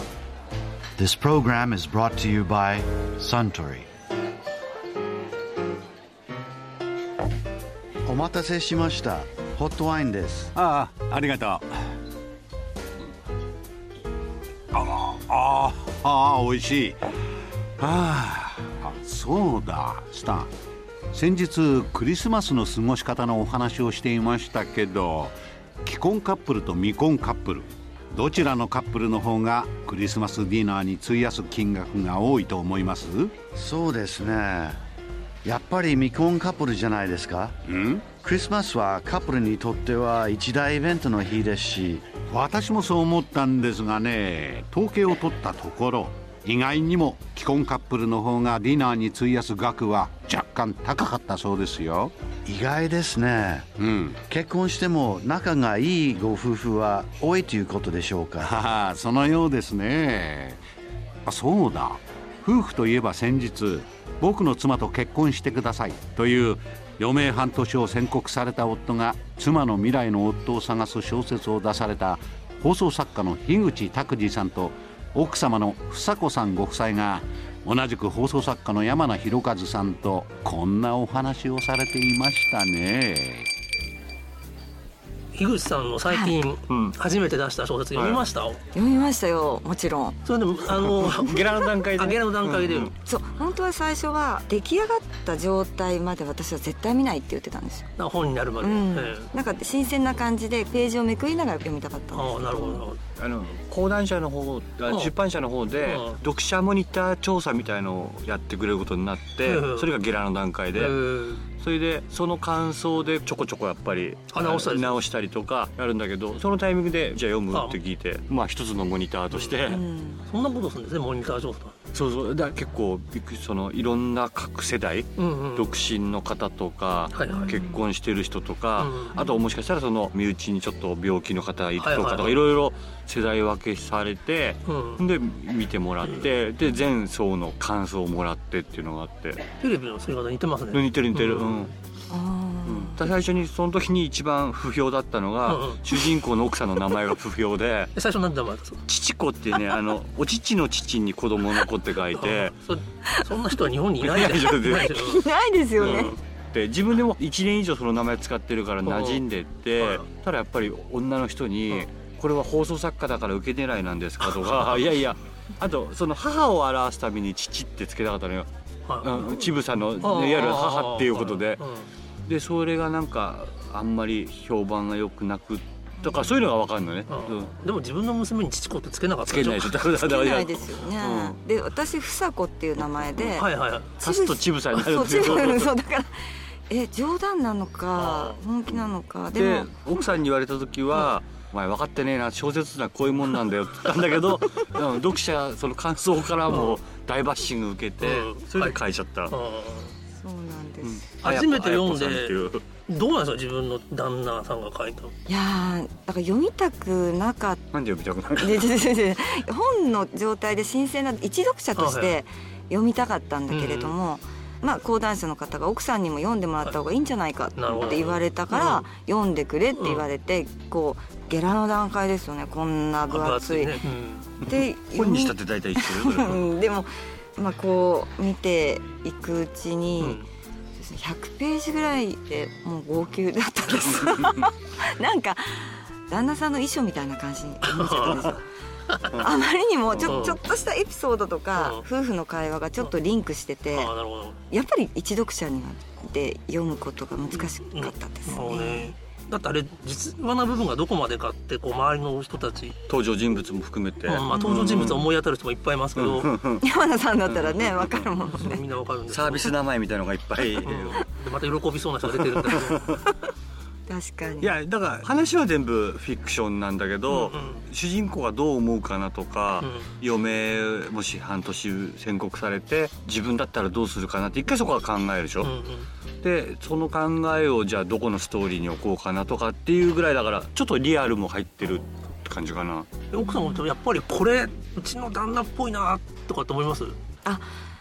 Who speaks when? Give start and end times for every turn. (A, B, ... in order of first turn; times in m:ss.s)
0:01.0-0:03.9 A
0:08.0-0:10.5 A
0:10.5-0:11.7 B
0:14.7-0:17.0 B
0:17.8-0:20.5 B
0:21.1-0:33.4 B
0:33.6-0:34.8 A
0:35.4-0:37.6 A
0:37.6-0:38.2 B
0:38.2-0:42.1 A
0:42.3-0:52.1 B
0:52.5-0:53.7 A
0:53.8-0:54.2 B
0:54.2-0:58.5 A
0:58.4-1:00.6 B
1:01.3-1:23.5 B
1:25.3-1:28.6 C
1:26.1-1:26.4 D
1:26.7-1:27.0 E
1:28.0-1:28.2 E
1:28.7-1:30.2 D
1:30.2-1:32.9 C
1:30.8-1:32.9 E
1:33.0-1:37.9 D
1:38.0-1:39.3 C
1:38.6-1:42.9 D
1:42.1-1:43.0 C
1:43.2-1:51.0 E
1:44.9-1:45.1 C
1:45.8-1:46.2 C
1:49.4-1:49.9 C
1:50.8-1:51.5 C
1:51.5-1:59.8 E
1:54.3-1:55.0 C
1:57.5-1:57.8 C
1:59.3-1:59.7 C
1:59.7-2:00.2 D
2:00.3-2:01.8 C
2:01.9-2:19.4 E
2:05.2-2:05.8 C
2:07.1-2:07.6 C
2:07.3-2:07.9 D
2:08.8-2:09.3 C
2:11.8-2:12.4 C
2:14.6-2:15.0 C
2:19.6-2:21.7 C
2:20.7-2:21.7 E
2:22.1-2:23.1 D
2:22.7-2:27.9 E
2:25.5-2:26.0 C
2:27.9-2:28.9 C
2:28.9-2:32.6 E
2:32.1-2:35.2 C
2:34.0-2:35.2 E
2:34.7-2:36.2 D
2:35.8-2:48.5 E
2:35.9-2:36.2 C
2:38.8-2:39.2 C
2:39.8-2:40.0 C
2:48.9-2:51.9 C
2:49.0-2:51.6 E
2:52.3-2:57.5 E
2:56.0-2:56.3 D
2:57.1-2:59.9 C
2:59.3-3:01.4 E
2:59.9-3:09.7 D
3:03.4-3:04.0 C
3:04.0-3:05.7 E
3:08.0-3:08.4 C
3:09.3-3:19.3 E
3:16.5-3:16.8 C
3:18.0-3:19.9 C
3:20.2-3:21.0 D
3:20.8-3:22.6 E
3:21.2-3:25.2 C
3:25.3-3:27.6 D
3:27.7-3:28.7 E
3:28.4-3:43.8 D
3:31.8-3:32.2 C
3:33.5-3:33.9 C
3:37.6-3:38.9 C
3:39.8-3:40.1 C
3:43.1-3:44.4 C
3:44.4-3:50.2 D
3:44.4-3:46.4 E
3:50.0-3:50.3 C
3:50.8-3:58.4 D
3:57.6-3:59.2 C
3:59.0-4:03.9 D
4:00.0-4:00.4 C
4:01.6-4:01.8 C
4:03.7-4:04.4 C
4:04.5-4:09.0 D
4:07.4-4:12.8 C
4:12.9-4:15.1 E
4:14.1-4:16.4 C
4:14.3-4:15.0 D
4:16.0-4:16.6 E
4:16.6-4:18.6 D
4:17.6-4:18.0 E
4:18.2-4:19.5 C
4:19.1-4:21.0 E
4:20.6-4:23.0 C
4:22.6-4:22.9 E
4:23.9-4:24.5 D
4:24.4-4:35.5 E
4:27.1-4:27.6 C
4:29.6-4:30.0 C
4:35.4-4:35.9 C
4:36.2-4:42.9 E
4:43.1-4:47.0 C
4:43.3-4:43.6 D
4:47.2-4:47.5 D